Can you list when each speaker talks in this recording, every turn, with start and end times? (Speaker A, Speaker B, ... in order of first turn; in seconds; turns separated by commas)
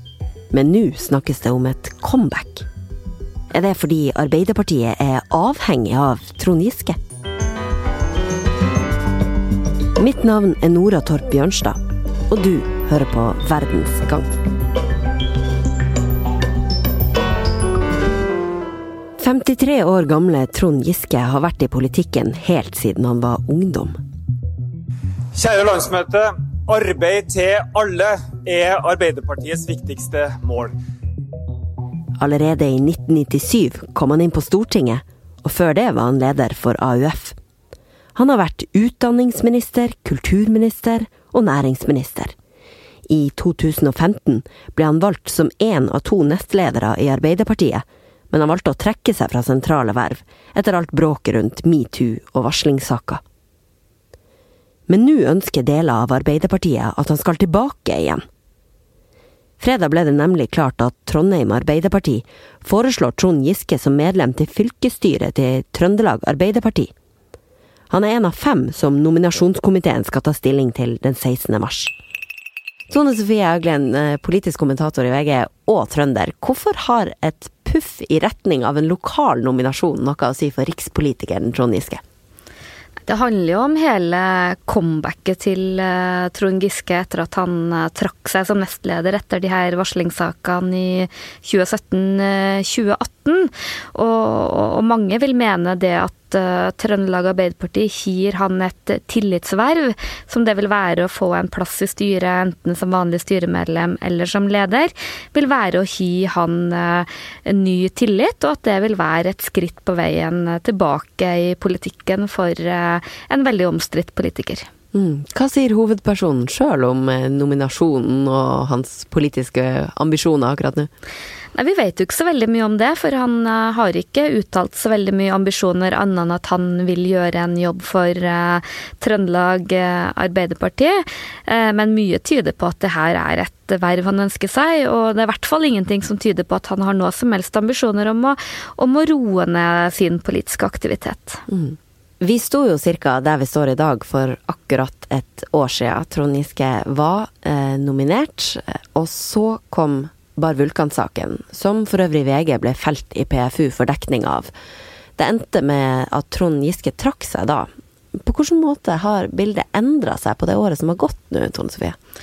Speaker A: 0.5-2.7, Speaker A: 3.5-7.0, Speaker A: 10.0-11.8, Speaker A: 12.3-14.2, Speaker A: 19.2-24.0, Speaker B: 25.4-30.8, Speaker A: 32.2-37.4, Speaker A: 38.2-42.3, Speaker A: 43.1-53.2, Speaker A: 54.9-58.2, Speaker A: 59.6-66.9, Speaker A: 67.9-71.9, Speaker A: 72.9-82.0, Speaker C: 83.1-114.7, Speaker A: 114.9-120.9, Speaker C: 121.5-141.4, Speaker A: 141.5-154.5, Speaker A: 155.2-162.0